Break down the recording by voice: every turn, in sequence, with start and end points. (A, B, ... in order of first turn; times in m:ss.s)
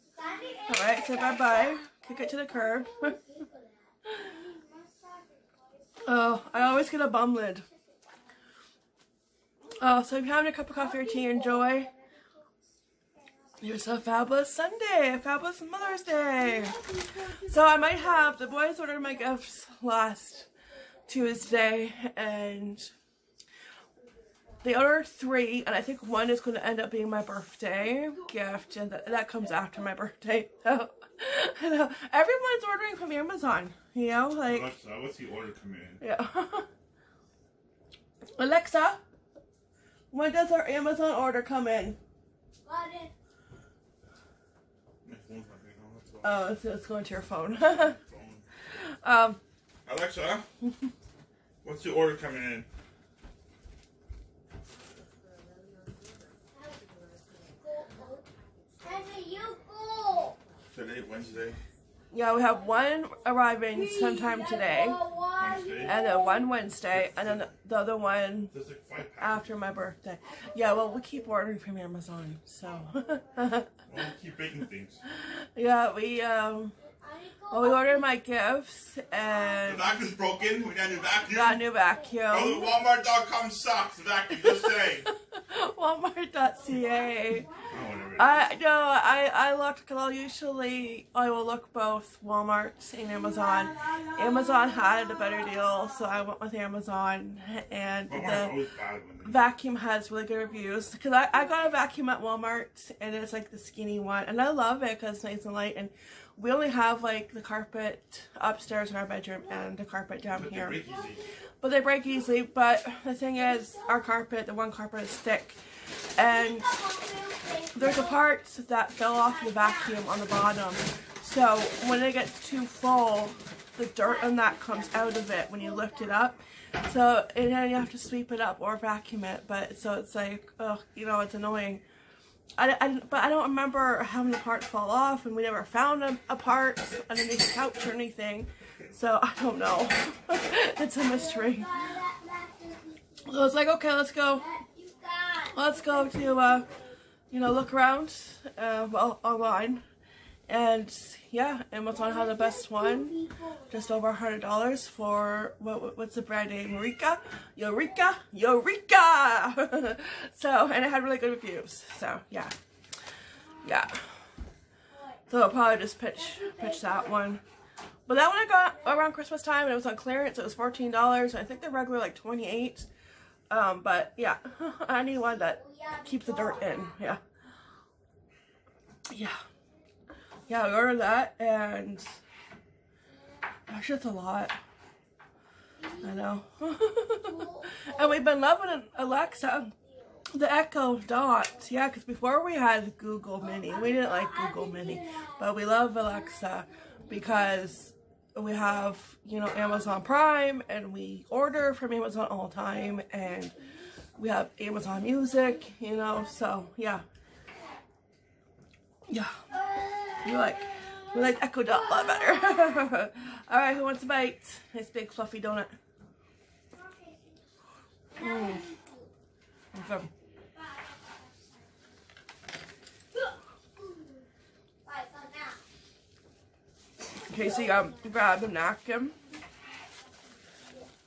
0:00.1-0:06.8 A
0:00.7-0:03.2 B
0:06.0-0:07.6 B
0:07.7-0:08.1 A
0:09.8-0:11.9 B
0:10.7-0:12.5 A
0:13.1-0:13.9 A
0:13.6-0:16.8 B
0:16.4-0:19.3 A
0:17.4-0:20.5 B
0:21.0-0:21.5 A
0:21.1-0:22.9 B
0:24.6-0:34.7 B
0:28.1-0:28.5 A
0:34.4-0:36.0 C
0:36.0-0:36.7 B
0:38.4-0:39.0 B
0:40.1-0:42.0 B
0:42.6-0:43.1 A
0:45.0-0:46.4 C
0:46.2-0:48.0 B
0:47.6-0:48.4 C
0:48.8-0:49.4 B
0:49.8-0:50.4 C
0:51.6-0:52.7 C
0:56.5-0:58.3 A
0:58.8-1:00.4 A
1:00.7-1:01.6 C
1:02.1-1:05.0 B
1:02.3-1:03.1 A
1:03.6-1:06.5 A
1:05.4-1:06.0 C
1:05.8-1:08.5 B
1:06.9-1:07.5 C
1:08.5-1:09.7 C
1:09.2-1:13.7 B
1:10.2-1:11.4 A
1:12.6-1:13.6 A
1:13.9-1:15.0 C
1:15.1-1:16.8 B
1:16.8-1:18.2 A
1:17.5-1:19.9 B
1:19.1-1:22.5 A
1:19.6-1:21.6 C
1:21.3-1:22.7 B
1:22.3-1:25.1 C
1:24.4-1:27.5 B
1:26.6-1:28.4 A
1:27.7-1:28.4 C
1:28.2-1:38.6 B
1:33.0-1:36.2 A
1:38.1-1:39.4 C
1:39.2-1:50.8 B
1:50.3-1:51.2 C
1:50.7-1:51.3 A
1:51.6-1:55.6 B
1:53.4-1:54.1 A
1:56.1-1:56.7 B
1:56.2-1:58.2 A
1:57.7-2:11.8 B
1:59.2-2:00.0 A
2:04.0-2:06.2 A
2:12.6-2:21.8 B
2:21.0-2:23.3 A
2:23.2-2:24.4 B
2:24.3-2:26.9 A
2:25.5-2:26.7 B
2:27.3-2:29.8 B
2:30.5-2:33.1 B
2:31.9-2:34.0 A
2:33.7-2:42.5 B
2:43.4-2:43.8 A
2:43.6-2:44.0 B
2:44.9-2:45.2 A
2:45.3-2:47.4 B
2:46.1-2:47.3 A
2:48.1-2:52.9 B
2:48.4-2:49.1 A
2:53.5-2:57.2 B
2:55.1-2:57.0 A
2:59.1-2:59.4 B
3:00.5-3:02.1 B
3:03.1-3:03.5 A
3:03.7-3:04.6 B
3:05.8-3:06.3 A
3:06.0-3:09.7 B
3:07.1-3:10.3 A
3:10.3-3:23.6 B
3:13.4-3:18.0 A
3:18.6-3:18.9 A
3:19.4-3:20.2 A
3:22.9-3:23.9 A
3:24.2-3:27.0 B
3:24.9-3:26.6 A
3:29.1-3:29.4 B
3:29.5-3:32.8 A
3:30.2-3:35.7 B
3:36.7-3:37.4 A
3:38.1-3:39.1 A
3:38.2-3:38.6 B
3:39.7-3:40.1 B
3:39.8-3:41.8 A
3:43.1-3:44.3 A
3:44.8-3:45.6 A
3:47.1-3:48.2 A
3:47.3-3:49.2 B
3:50.5-3:50.9 A